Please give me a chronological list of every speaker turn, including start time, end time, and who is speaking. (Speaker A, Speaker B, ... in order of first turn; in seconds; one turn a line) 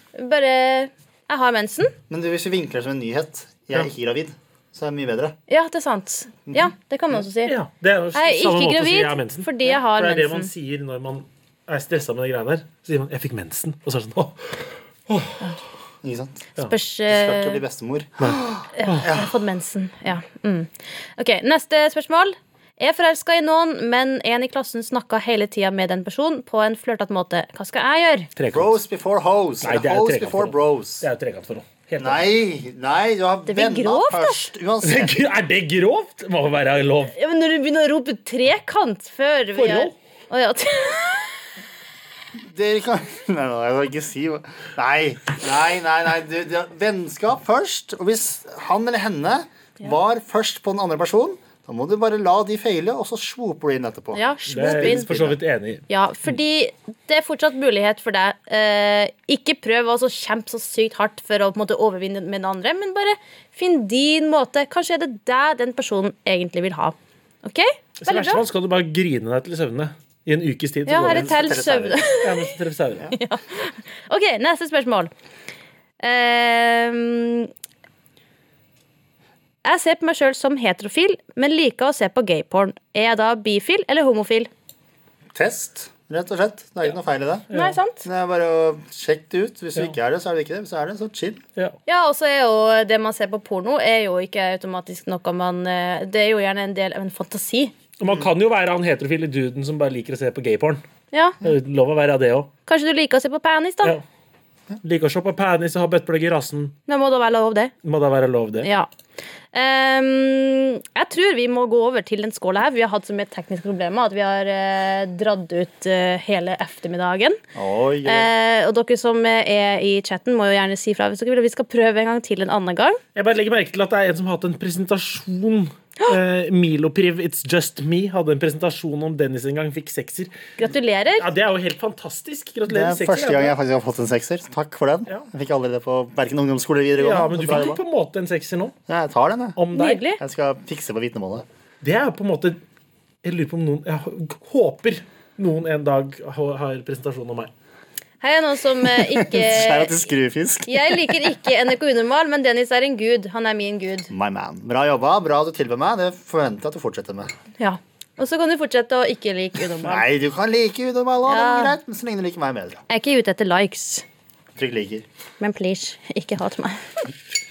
Speaker A: 0.1-1.9
Speaker B: 2.1-5.3
Speaker A: 5.5-7.5
Speaker B: 6.5-6.7
Speaker C: 7.5-15.4
Speaker A: 8.1-10.5
Speaker B: 16.0-16.5
Speaker A: 16.6-17.6
Speaker B: 17.1-19.3
Speaker C: 18.2-19.1
Speaker A: 18.7-28.3
Speaker C: 28.4-28.7
Speaker B: 28.5-31.0
Speaker C: 29.6-32.2
Speaker B: 32.0-35.1
Speaker A: 33.5-34.5
Speaker C: 34.8-37.1
Speaker A: 37.1-41.4
Speaker C: 39.5-39.9
Speaker B: 42.4-55.4
Speaker A: 54.1-55.1
Speaker C: 54.5-55.8
Speaker A: 55.9-68.4
Speaker C: 68.0-71.3
Speaker A: 70.8-72.5
Speaker B: 71.0-72.0
Speaker C: 72.2-73.1
Speaker A: 73.1-75.1
Speaker A: 76.0-77.5
Speaker A: 79.6-84.5
Speaker B: 85.3-87.5
Speaker C: 87.5-87.8
Speaker A: 87.5-88.0
Speaker B: 88.0-91.4
Speaker A: 91.9-97.7
Speaker C: 98.0-100.8
Speaker A: 101.1-101.4
Speaker C: 101.4-102.5
Speaker A: 102.7-104.0
Speaker C: 104.8-106.7
Speaker A: 106.9-107.7
Speaker C: 107.8-108.7
Speaker A: 108.6-108.9
Speaker A: 109.5-117.4
Speaker B: 117.5-118.3
Speaker A: 118.0-123.0
Speaker C: 123.1-130.3
Speaker A: 130.6-131.2
Speaker C: 131.2-133.6
Speaker B: 132.7-137.8
Speaker C: 137.0-138.7
Speaker B: 138.9-139.6
Speaker C: 139.6-140.0
Speaker A: 139.7-140.2
Speaker B: 140.2-141.4
Speaker C: 141.8-142.6
Speaker C: 143.2-147.5
Speaker A: 148.2-150.0
Speaker B: 149.0-151.2
Speaker A: 150.7-154.1
Speaker B: 154.1-157.3
Speaker A: 157.6-160.1
Speaker B: 159.8-162.8
Speaker A: 161.3-161.8
Speaker A: 162.9-164.0
Speaker B: 164.6-165.0
Speaker A: 165.4-166.9